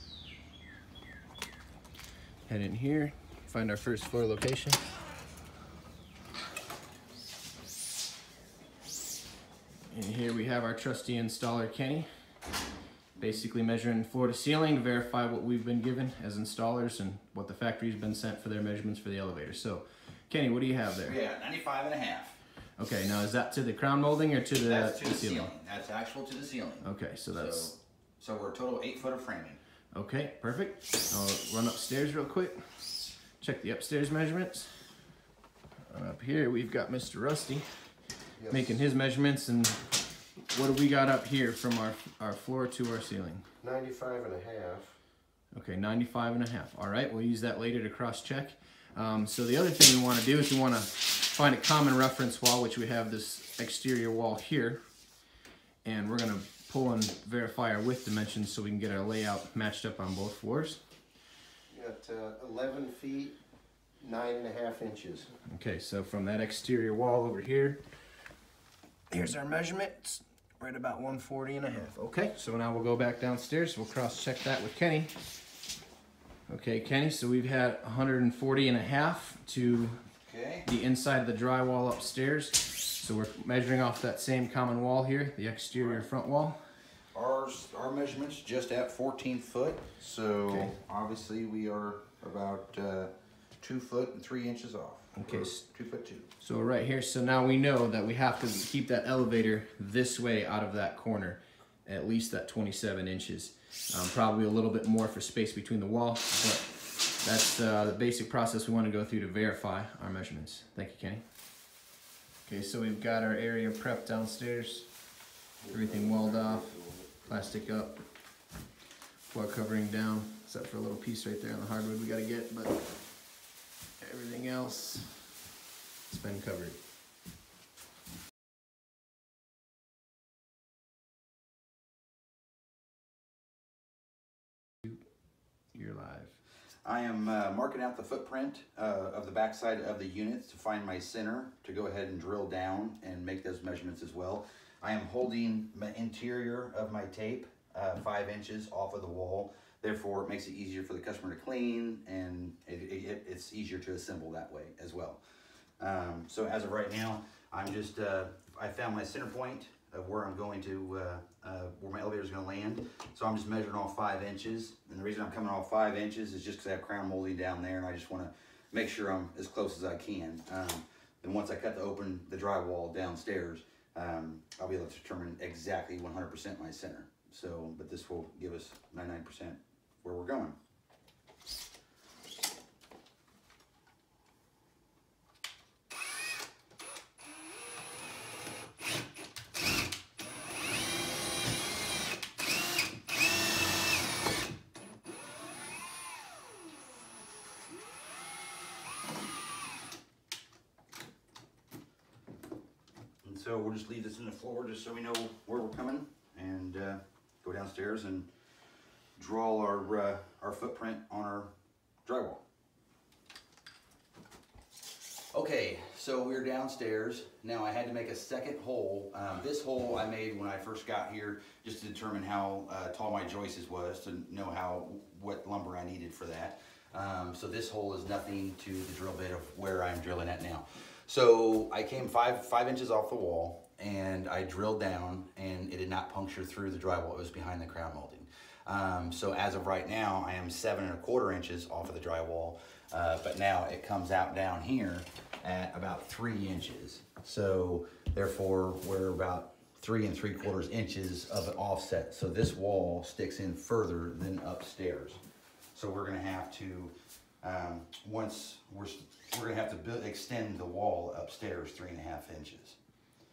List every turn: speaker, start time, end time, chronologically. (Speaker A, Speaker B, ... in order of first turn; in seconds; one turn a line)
Speaker A: 2.5-4.8
Speaker A: 9.9-12.1
Speaker A: 13.2-21.2
Speaker B: 21.0-22.4
Speaker A: 22.8-25.5
Speaker B: 24.6-29.6
Speaker A: 26.8-27.7
Speaker A: 29.9-32.9
Speaker A: 33.4-34.7
Speaker A: 35.9-37.7
Speaker A: 38.5-39.9
Speaker A: 40.5-43.4
Speaker C: 43.6-44.9
Speaker A: 45.5-54.8
Speaker A: 55.8-60.8
Speaker C: 61.7-63.4
Speaker C: 64.0-65.3
Speaker A: 65.5-67.8
Speaker A: 69.1-75.1
Speaker A: 76.5-80.0
Speaker B: 80.2-80.7
Speaker A: 80.7-86.6
Speaker B: 85.8-86.1
Speaker B: 87.1-96.3
Speaker A: 90.5-90.8
Speaker A: 95.2-95.6
Speaker A: 96.4-106.7
Speaker A: 107.2-111.2
Speaker A: 112.5-114.9
Speaker A: 115.6-118.0
Speaker C: 115.7-117.0
Speaker A: 119.3-122.8
Speaker A: 124.0-125.2
Speaker A: 126.1-126.8
Speaker A: 135.7-136.4
Speaker B: 136.8-155.2
Speaker B: 155.8-180.6
Speaker B: 203.2-208.3
Speaker B: 209.2-211.5
Speaker B: 212.1-212.4
Speaker B: 215.3-255.2
Speaker B: 255.8-262.8